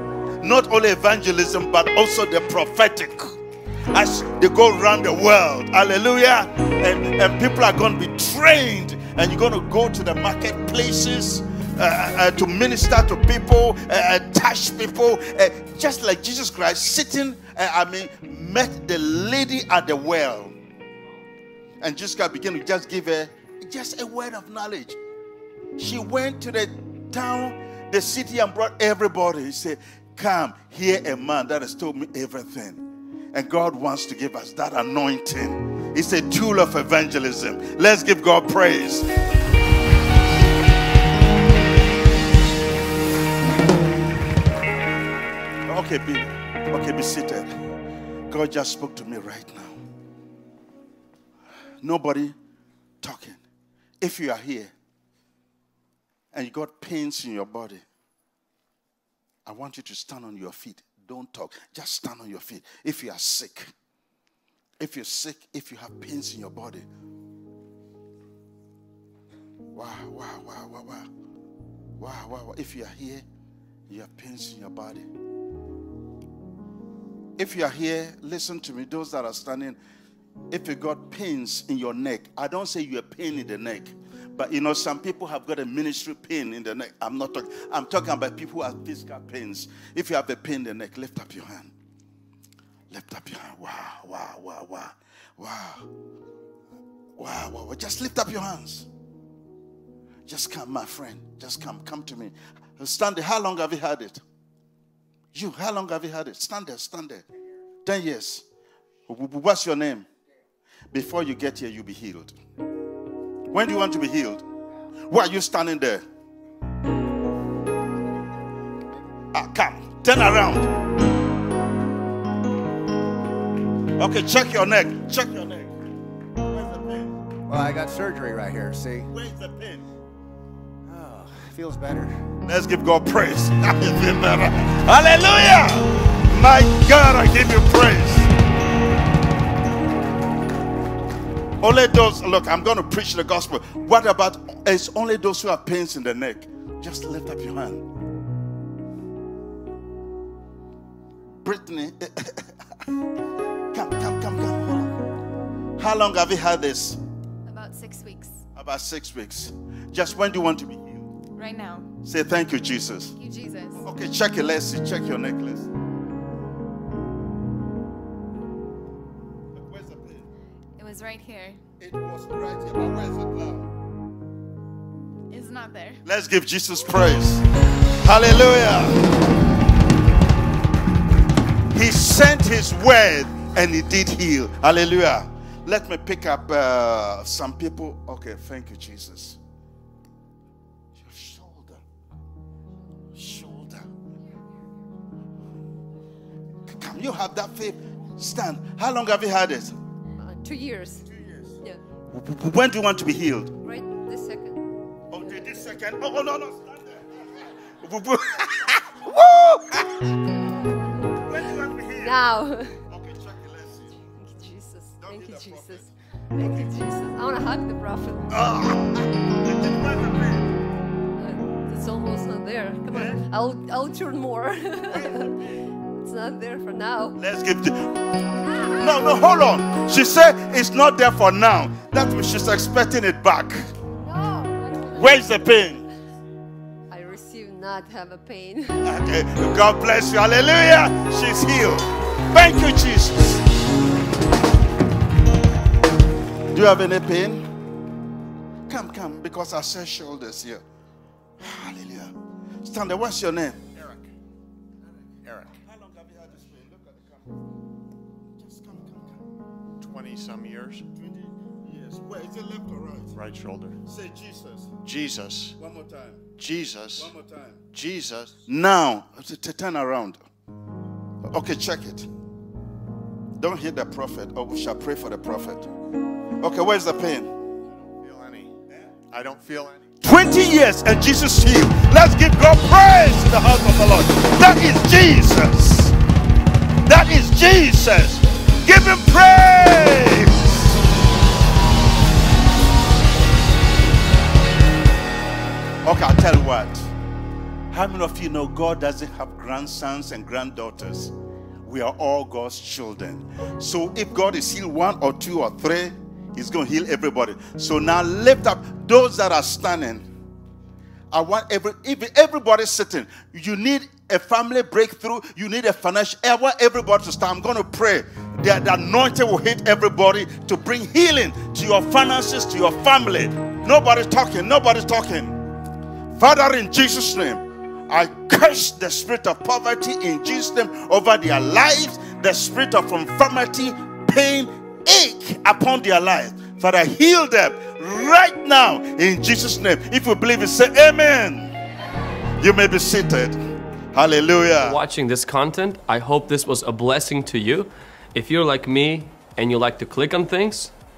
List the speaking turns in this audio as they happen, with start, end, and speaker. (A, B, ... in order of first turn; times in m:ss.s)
0:00.4-0:03.4 A
0:03.9-0:20.6 A
0:21.8-0:25.0 A
0:25.8-0:32.8 A
0:33.3-0:39.1 A
0:45.7-0:47.6 A
0:48.3-0:49.8 A
0:51.8-0:52.4 A
0:53.0-0:53.4 A
0:54.0-0:54.7 A
0:56.3-0:57.8 A
0:59.5-1:03.7 A
1:04.8-1:06.9 A
1:09.8-1:11.1 A
1:12.0-1:13.2 A
1:13.9-1:15.1 A
1:17.4-1:19.8 A
1:20.5-1:31.7 A
1:32.9-1:35.9 A
1:37.2-1:38.9 A
1:40.3-1:44.2 A
1:45.3-1:47.2 A
1:47.8-1:48.4 A
1:49.1-1:50.1 A
1:50.9-1:52.4 A
1:53.5-1:54.4 A
1:55.1-1:56.0 A
1:59.3-2:00.7 A
2:04.0-2:05.7 A
2:06.5-2:07.2 A
2:07.5-2:09.1 B
2:09.1-2:09.8 A
2:10.9-2:12.2 B
2:12.4-2:18.3 A
2:21.6-2:27.8 A
2:31.4-2:32.5 A
2:33.7-2:35.0 A
2:35.8-2:37.0 A
2:37.5-2:38.4 C
2:38.6-2:41.1 A
2:41.4-2:41.9 C
2:42.0-2:43.1 A
2:43.2-2:43.9 C
2:43.7-2:45.7 A
2:49.5-2:50.3 A
2:50.8-2:51.6 C
2:51.8-2:53.7 A
2:55.3-2:56.0 C
2:56.0-2:57.4 A
2:58.0-2:59.0 A
3:01.7-3:09.4 A
3:11.0-3:11.8 A
3:13.2-3:13.9 A
3:16.7-3:19.8 A
3:20.2-3:21.0 D
3:21.0-3:23.6 A
3:23.6-3:25.6 D
3:25.1-3:30.1 A
3:31.1-3:32.2 A
3:32.0-3:32.8 D
3:32.9-3:34.0 A
3:34.2-3:38.4 D
3:35.0-3:35.9 A
3:38.3-3:40.5 A
3:41.2-3:45.3 D
3:42.9-3:43.2 A
3:44.8-3:45.7 A
3:46.0-3:47.2 D
3:47.2-3:53.7 A
3:48.4-3:49.4 D
3:54.0-3:55.7 D
3:55.0-3:55.8 A
3:56.9-3:59.0 D
3:58.8-4:03.4 A
4:06.5-4:07.5 A
4:08.7-4:10.6 A
4:11.4-4:13.6 A
4:13.8-4:14.1 E
4:15.2-4:15.6 E
4:15.6-4:17.4 A
4:18.4-4:19.2 A
4:19.8-4:20.9 E
4:20.9-4:23.2 A
4:23.2-4:23.8 E
4:23.8-4:24.7 A
4:24.8-4:25.6 E
4:25.6-4:26.3 A
4:26.4-4:27.1 E
4:26.9-4:27.6 A
4:27.7-4:28.4 E
4:28.5-4:30.2 A
4:31.2-4:32.1 A
4:33.4-4:35.7 A
4:36.4-4:37.3 A
4:38.0-4:38.5 E
4:39.1-4:39.8 E
4:40.0-4:46.0 A
4:46.9-4:50.6 A
4:55.8-4:56.9 A
4:57.7-5:01.1 A
5:01.6-5:10.1 A
5:11.1-5:25.4 A
5:26.2-5:41.5 A
5:42.4-5:43.4 A
5:43.9-5:44.8 A
5:44.6-5:50.7 F